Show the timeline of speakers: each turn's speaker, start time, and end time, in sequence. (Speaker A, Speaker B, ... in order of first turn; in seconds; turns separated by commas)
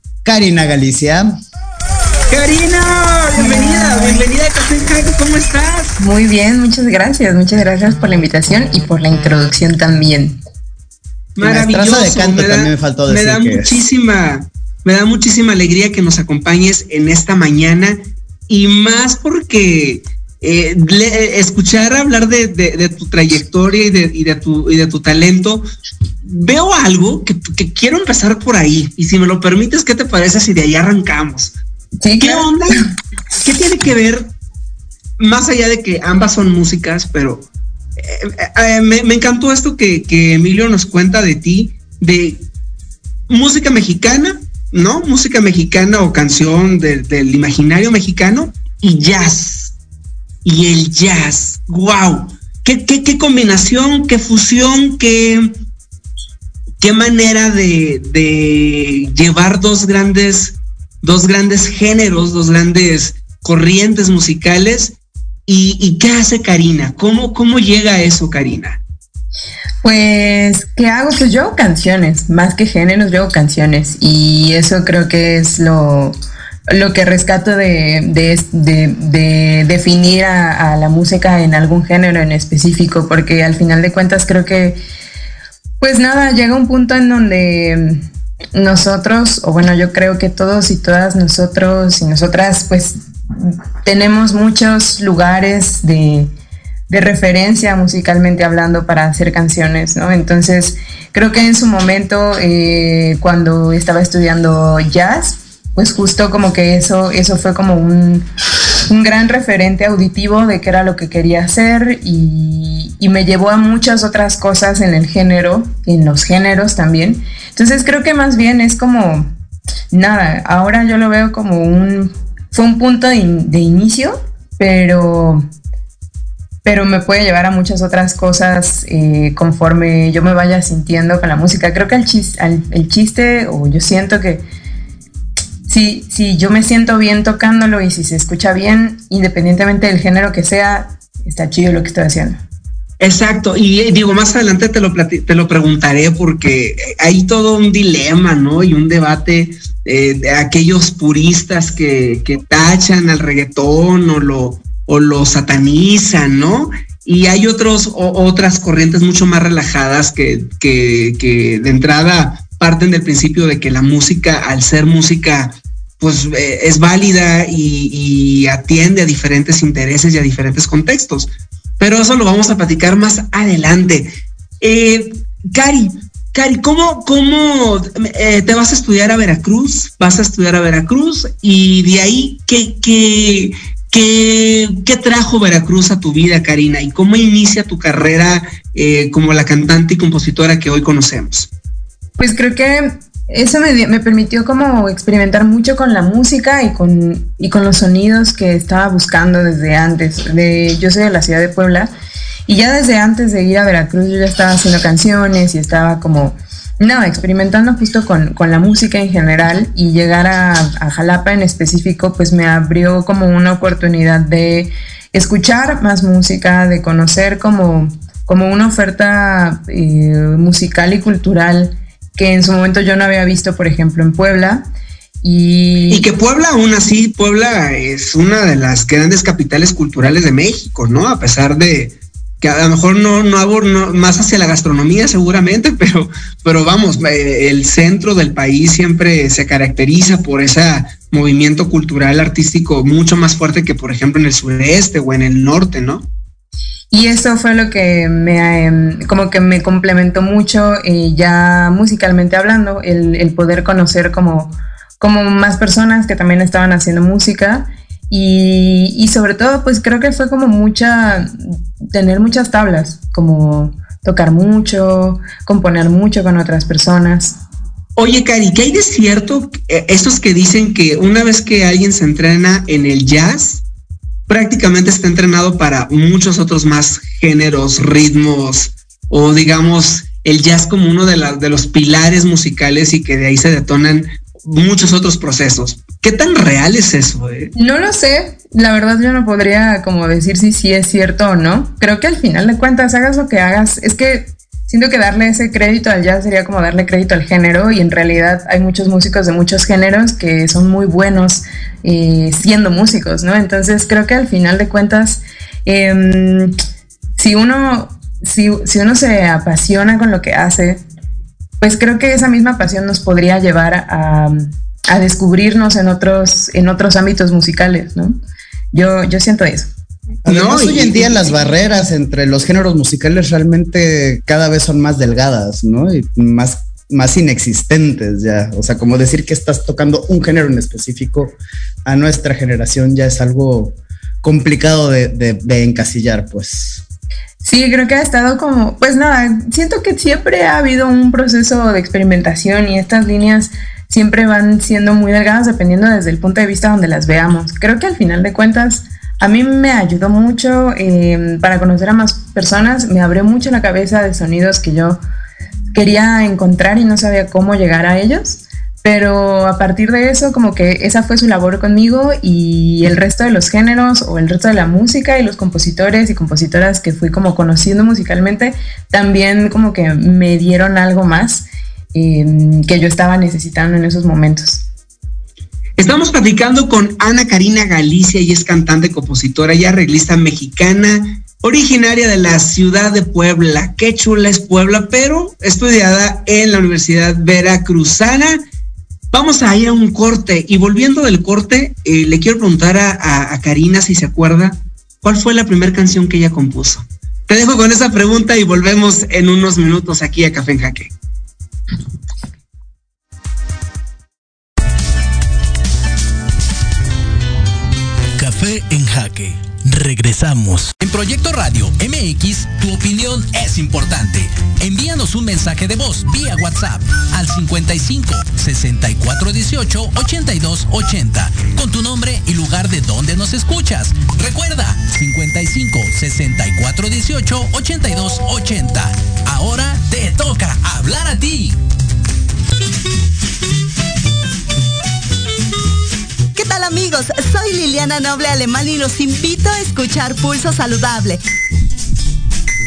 Speaker A: 0.2-1.3, Speaker B: 2.3-6.0, Speaker C: 3.4-4.2, Speaker C: 6.0-10.4, Speaker B: 11.4-25.6, Speaker A: 11.4-13.8, Speaker B: 26.2-31.6, Speaker C: 32.0-32.5, Speaker B: 32.2-32.8, Speaker B: 33.4-34.3, Speaker B: 35.2-37.5, Speaker B: 38.0-42.5, Speaker B: 43.3-49.7, Speaker B: 50.5-55.5, Speaker B: 56.8-64.9, Speaker B: 65.5-68.8, Speaker C: 69.8-76.2, Speaker C: 76.7-84.8, Speaker C: 85.8-96.3, Speaker C: 96.9-108.2, Speaker C: 108.9-119.3, Speaker C: 119.9-125.5, Speaker C: 126.6-134.4, Speaker C: 135.7-142.4, Speaker B: 143.0-191.5, Speaker C: 192.2-201.9, Speaker C: 202.5-224.7, Speaker C: 225.2-226.1, Speaker B: 225.9-246.1, Speaker C: 246.9-267.4, Speaker B: 268.0-273.6, Speaker B: 274.3-287.5, Speaker C: 287.6-306.5, Speaker C: 307.2-310.8, Speaker C: 311.6-318.2, Speaker C: 318.7-319.7, Speaker A: 320.3-336.8, Speaker B: 320.3-321.4, Speaker C: 337.4-355.0, Speaker C: 355.7-374.6, Speaker B: 375.8-388.4, Speaker B: 389.1-400.9, Speaker D: 408.2-410.8, Speaker E: 410.8-431.6, Speaker F: 436.4-441.2